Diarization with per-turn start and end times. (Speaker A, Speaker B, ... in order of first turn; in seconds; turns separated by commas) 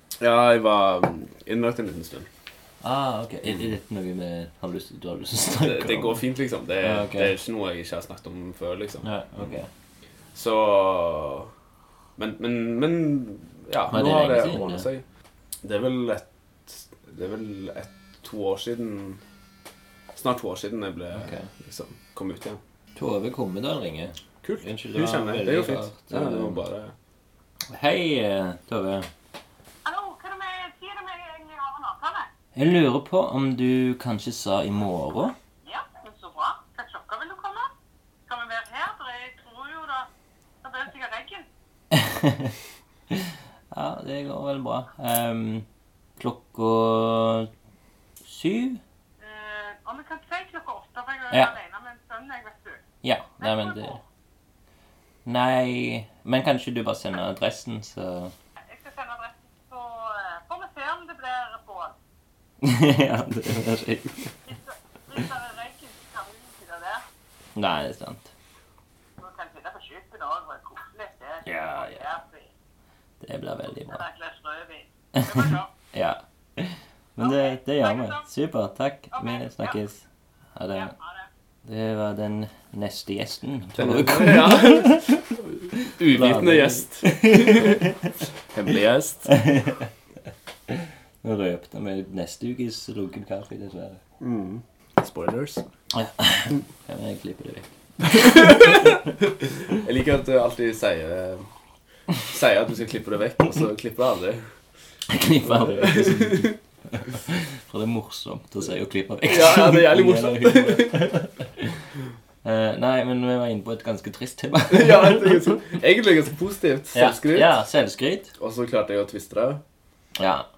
Speaker A: 0.2-2.3, Speaker B: 2.8-6.2, Speaker A: 5.6-9.1, Speaker B: 6.8-7.3, Speaker B: 9.0-9.7, Speaker A: 10.3-11.5, Speaker A: 12.2-15.0, Speaker B: 13.9-14.9, Speaker A: 15.6-19.2, Speaker A: 20.1-22.6, Speaker B: 21.2-21.5, Speaker B: 22.9-26.6, Speaker A: 24.4-26.9, Speaker B: 27.7-29.1, Speaker C: 29.9-32.3, Speaker B: 32.5-35.4, Speaker C: 35.6-37.7, Speaker C: 38.3-40.1, Speaker C: 40.6-41.5, Speaker B: 41.9-42.5, Speaker B: 43.1-45.7, Speaker B: 46.2-47.5, Speaker B: 48.2-48.8, Speaker C: 49.2-52.8, Speaker B: 53.0-54.0, Speaker C: 53.4-54.0, Speaker B: 55.2-58.3, Speaker C: 58.7-62.0, Speaker B: 62.6-64.3, Speaker C: 64.5-67.0, Speaker B: 67.6-68.3, Speaker C: 69.2-72.5, Speaker B: 71.5-72.0, Speaker B: 73.2-74.0, Speaker C: 73.9-75.7, Speaker B: 75.2-80.9, Speaker C: 77.2-78.3, Speaker C: 79.1-79.8, Speaker C: 80.7-81.3, Speaker B: 81.7-85.2, Speaker A: 83.8-85.1, Speaker B: 85.8-88.1, Speaker A: 85.8-87.8, Speaker A: 88.5-89.3, Speaker B: 89.3-89.9, Speaker B: 90.7-94.0, Speaker A: 94.2-95.6, Speaker B: 95.9-99.0, Speaker A: 98.1-101.5, Speaker A: 102.2-104.5, Speaker B: 105.1-111.8, Speaker A: 105.4-106.5, Speaker A: 109.3-111.1, Speaker B: 112.4-115.6, Speaker A: 114.7-117.5, Speaker B: 116.9-118.3, Speaker A: 118.4-119.6, Speaker B: 120.2-120.5